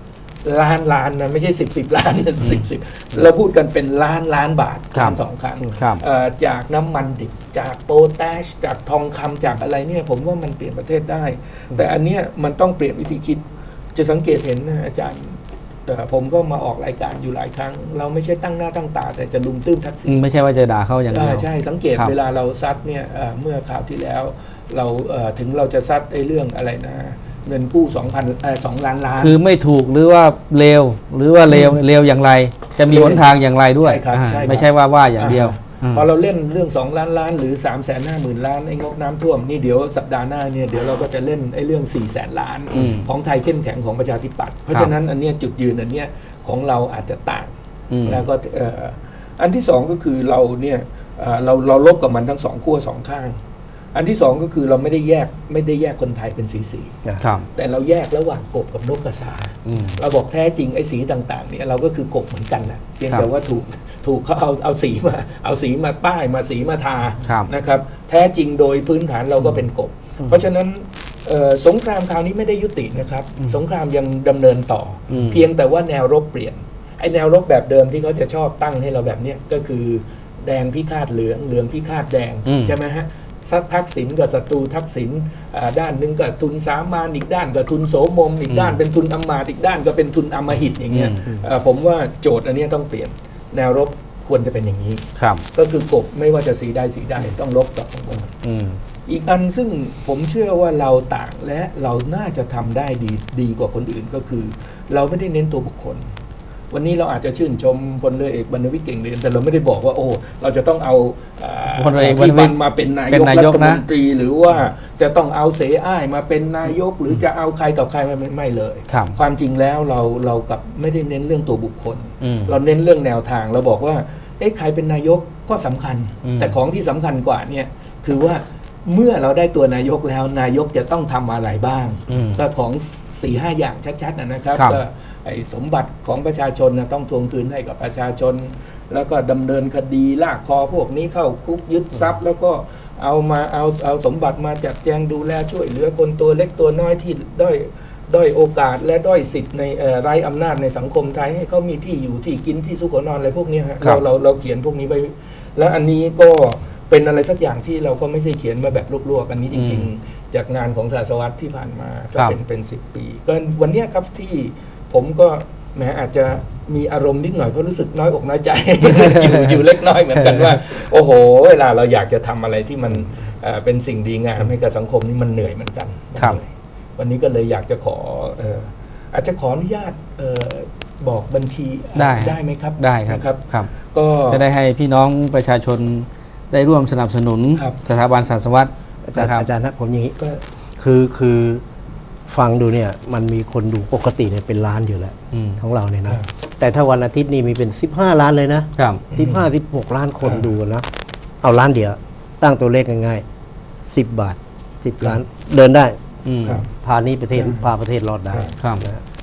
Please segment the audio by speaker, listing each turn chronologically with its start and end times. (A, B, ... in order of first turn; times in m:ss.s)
0:00.4-0:20.2 A
0:02.4-0:02.6 B
0:04.9-0:05.2 B
0:05.7-0:06.0 B
0:20.0-0:22.1 B
0:21.1-0:29.4 A
0:29.2-0:36.0 B
0:31.5-0:31.8 A
0:32.9-0:33.2 A
0:33.8-0:47.5 A
0:42.7-0:43.1 B
0:47.9-0:48.2 B
0:48.0-0:53.4 A
0:53.9-0:57.0 A
0:57.2-0:57.5 B
0:57.5-1:38.3 A
0:59.6-1:00.0 B
1:07.2-1:07.5 B
1:15.1-1:15.5 B
1:22.4-1:22.8 B
1:28.5-1:28.8 B
1:30.9-1:31.3 B
1:35.2-1:35.4 B
1:38.4-1:38.8 B
1:39.1-1:46.0 A
1:46.7-3:04.4 A
1:51.7-1:52.6 B
1:53.1-1:53.8 B
1:58.9-1:59.2 B
2:02.2-2:02.6 B
2:06.2-2:06.6 B
2:12.1-2:12.4 B
2:14.5-2:14.8 B
2:39.5-2:39.9 B
2:48.8-2:49.6 B
2:50.1-2:50.6 B
3:02.0-3:03.7 B
3:04.3-3:09.5 B
3:09.0-3:10.2 C
3:10.2-3:10.4 A
3:10.8-3:11.6 C
3:12.3-3:20.8 C
3:15.3-3:15.6 B
3:18.8-3:19.0 B
3:19.1-3:19.5 A
3:20.2-3:20.5 A
3:21.4-3:23.2 C
3:23.8-3:26.0 C
3:26.2-3:26.6 B
3:26.4-3:26.7 A
3:26.8-3:29.0 C
3:27.3-3:27.7 A
3:28.3-3:28.6 A
3:28.6-3:28.8 B